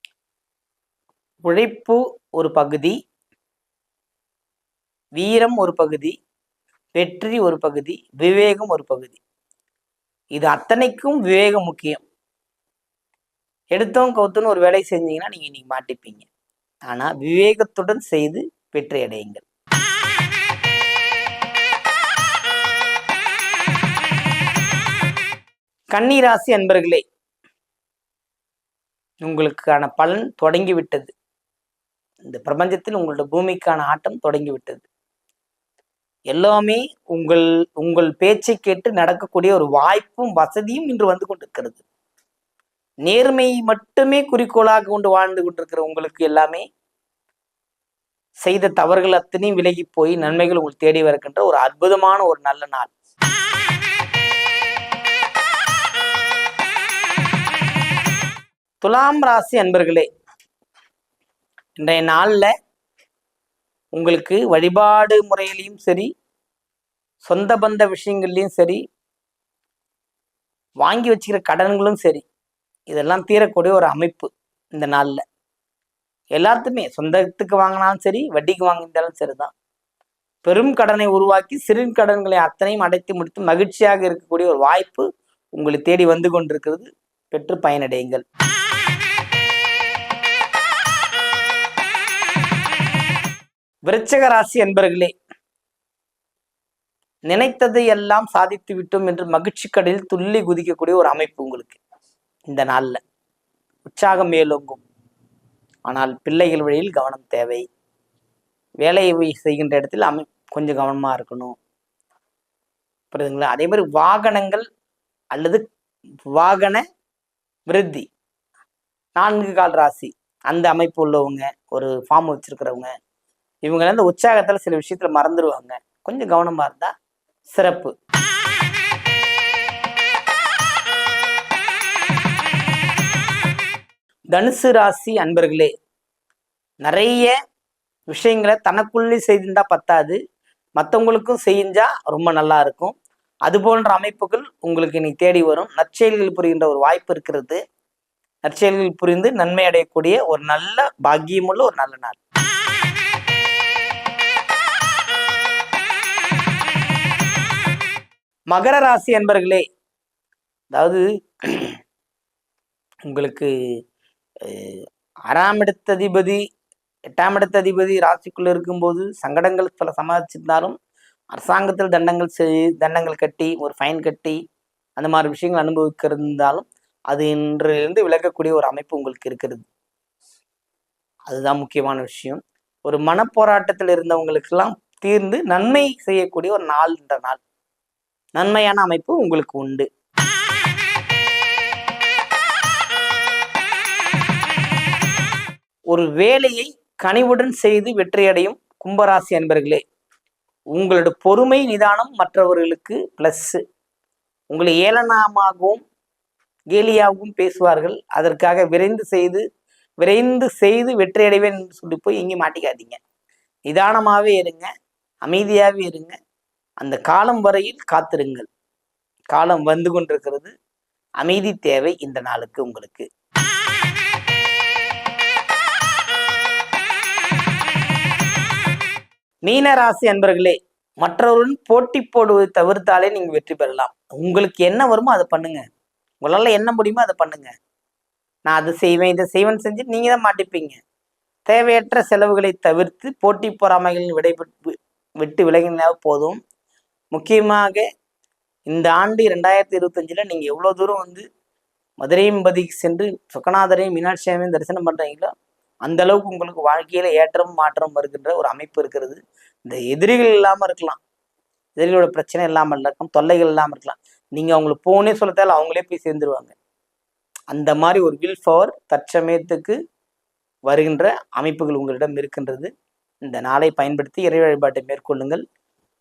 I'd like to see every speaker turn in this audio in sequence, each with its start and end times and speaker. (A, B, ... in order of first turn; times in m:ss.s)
0:01.4-0:03.0 A
0:05.2-0:06.2 A
0:06.9-0:09.2 A
0:10.3-0:12.0 A
0:13.7-0:16.3 A
0:16.9-0:19.4 A
0:25.9-0:27.0 A
0:29.2-0:31.1 A
0:32.2-0:34.8 A
0:36.3-0:41.8 A
0:43.0-0:46.6 A
0:48.4-0:52.9 A
0:58.8-1:00.1 A
1:01.8-1:02.5 A
1:03.9-1:06.1 A
1:07.2-1:08.8 A
1:10.8-1:12.2 A
1:12.9-1:15.2 A
1:16.4-1:19.5 A
1:20.4-1:28.2 A
1:33.8-1:35.1 A
1:37.3-1:41.8 A
1:42.5-1:43.0 A
1:43.8-1:44.8 A
1:45.9-1:47.6 A
1:48.8-1:51.6 A
1:53.1-1:54.6 A
1:55.3-1:55.6 A
1:56.3-1:56.8 A
1:57.7-1:58.0 A
1:59.2-2:02.9 A
2:03.6-2:06.9 A
2:07.5-2:07.9 A
2:14.3-2:15.7 A
2:16.8-2:17.3 A
2:18.1-2:20.2 A
2:20.8-2:23.0 A
2:23.5-2:27.6 A
2:28.4-2:32.2 A
2:38.5-2:39.6 A
2:40.7-2:41.8 A
2:43.1-2:43.5 A
2:44.4-2:46.4 A
2:47.1-2:50.7 A
2:51.3-2:54.4 A
2:55.0-2:59.6 A
3:01.3-3:07.4 A
3:08.4-3:09.9 A
3:15.9-3:19.8 A
3:20.7-3:23.6 A
3:24.5-3:25.8 A
3:26.7-3:29.4 A
3:30.0-3:33.0 A
3:33.7-3:34.7 A
3:35.2-3:36.2 A
3:36.8-3:38.5 A
3:39.3-3:40.5 A
3:41.2-3:43.1 A
3:49.4-3:55.6 A
3:56.2-3:57.5 A
3:58.4-4:00.8 A
4:01.4-4:06.4 A
4:07.1-4:07.8 A
4:08.7-4:11.2 A
4:12.0-4:15.3 A
4:15.8-4:21.0 A
4:21.8-4:26.5 A
4:27.5-4:29.8 A
4:30.7-4:32.7 A
4:33.2-4:35.4 A